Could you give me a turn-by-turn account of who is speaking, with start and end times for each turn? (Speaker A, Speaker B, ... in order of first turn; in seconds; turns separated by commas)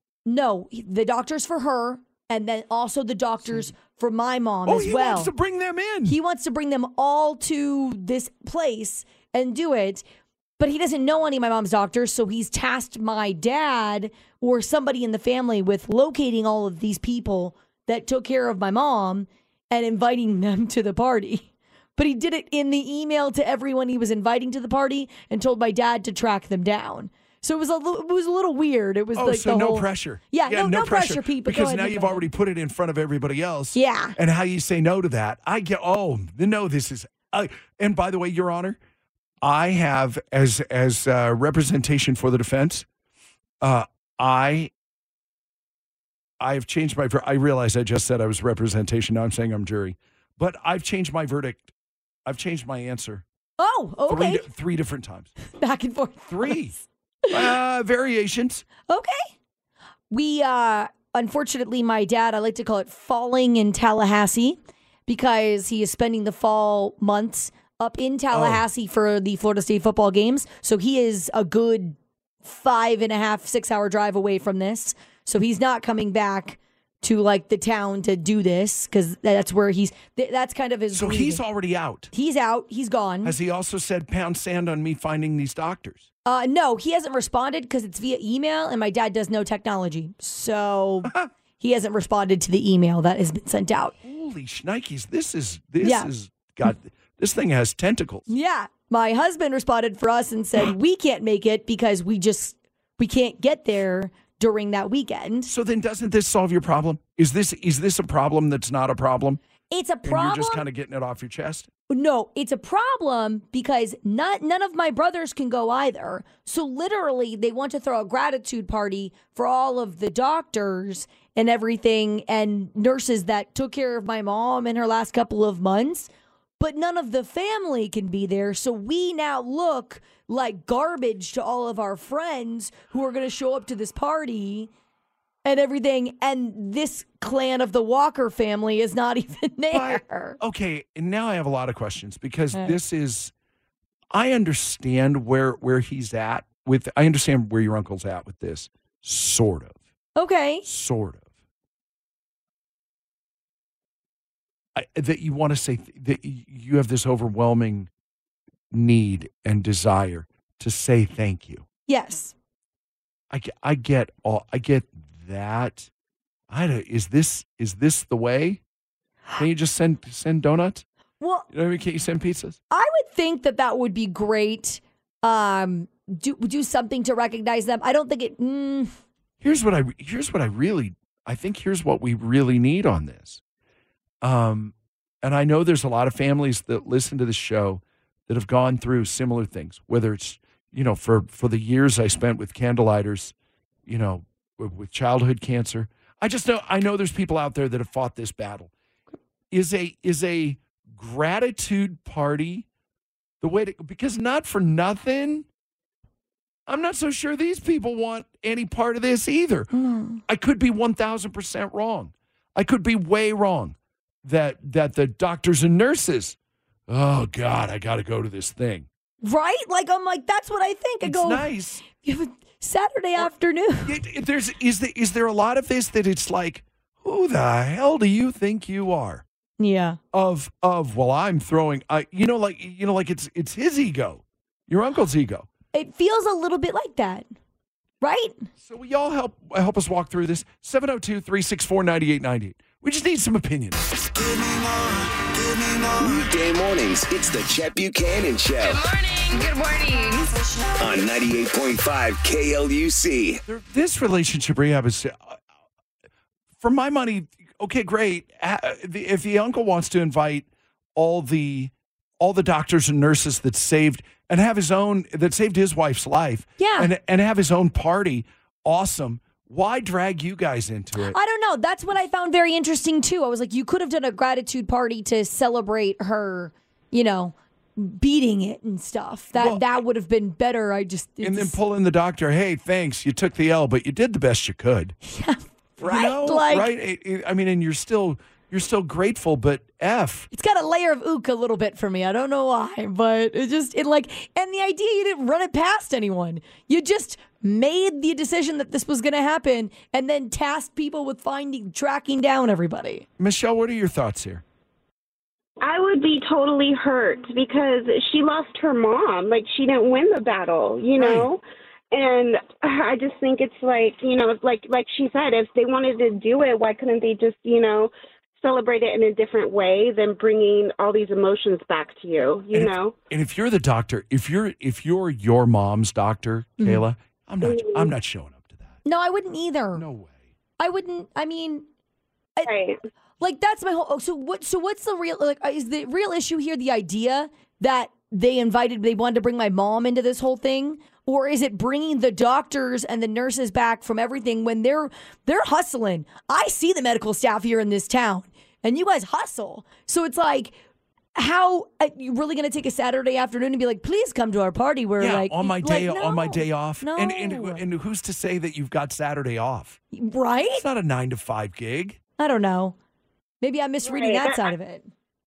Speaker A: 0.2-5.3, Speaker B: 4.7-6.2, Speaker A: 6.0-10.0, Speaker A: 10.6-32.3, Speaker B: 29.1-38.8, Speaker A: 33.7-34.2, Speaker B: 39.4-42.9, Speaker B: 43.6-44.7, Speaker B: 46.4-51.7, Speaker B: 52.2-53.2, Speaker A: 53.6-54.4, Speaker B: 54.1-55.3, Speaker A: 55.5-56.6, Speaker B: 56.3-56.8, Speaker B: 57.3-58.6, Speaker A: 58.9-59.3, Speaker A: 60.1-81.4, Speaker B: 68.3-68.6, Speaker B: 80.9-82.1, Speaker A: 82.1-83.3, Speaker B: 83.2-86.0, Speaker A: 86.2-93.9, Speaker B: 94.0-98.3, Speaker A: 95.8-96.1, Speaker A: 98.3-105.5, Speaker B: 105.5-109.4, Speaker A: 109.7-110.6, Speaker B: 110.0-111.7, Speaker A: 111.9-134.7, Speaker A: 135.4-140.4, Speaker B: 139.7-143.3, Speaker B: 144.1-149.8, Speaker A: 150.2-150.6, Speaker B: 150.6-151.2, Speaker B: 154.7-157.9, Speaker B: 158.7-161.6, Speaker A: 161.9-162.3, Speaker B: 163.3-165.9, Speaker B: 166.5-168.6, Speaker B: 169.4-170.8, Speaker A: 171.2-171.5, Speaker B: 171.5-172.6, Speaker A: 172.7-178.9, Speaker B: 179.4-183.4, Speaker B: 184.2-193.3, Speaker B: 193.8-198.7, Speaker B: 199.5-202.7, Speaker B: 203.4-205.4, Speaker B: 206.7-209.7, Speaker A: 209.7-210.2, Speaker B: 210.3-216.3, Speaker B: 216.9-218.9, Speaker A: 219.2-223.9, Speaker B: 221.0-221.8, Speaker B: 223.8-229.2, Speaker A: 229.6-230.0, Speaker B: 230.1-235.5, Speaker A: 235.7-237.3, Speaker A: 238.0-238.4, Speaker B: 238.6-244.1, Speaker C: 245.9-248.8, Speaker D: 248.6-250.7, Speaker C: 250.8-253.4, Speaker B: 253.4-255.3, Speaker B: 256.6-271.1, Speaker A: 266.6-266.9, Speaker A: 271.1-281.6, Speaker B: 279.4-279.6, Speaker B: 281.2-284.9, Speaker A: 285.0-286.7, Speaker B: 285.8-290.3, Speaker A: 290.3-303.1, Speaker B: 303.2-304.4, Speaker E: 305.6-322.9, Speaker B: 311.0-311.3, Speaker B: 322.5-328.8, Speaker E: 327.4-327.9, Speaker A: 328.8-329.8, Speaker B: 329.7-330.2, Speaker A: 330.6-331.6, Speaker E: 332.4-332.8, Speaker A: 333.2-350.5, Speaker A: 351.1-357.6, Speaker B: 355.0-359.8, Speaker A: 359.9-360.6, Speaker B: 360.5-362.0, Speaker A: 362.2-362.7, Speaker A: 363.4-364.9, Speaker E: 363.8-364.5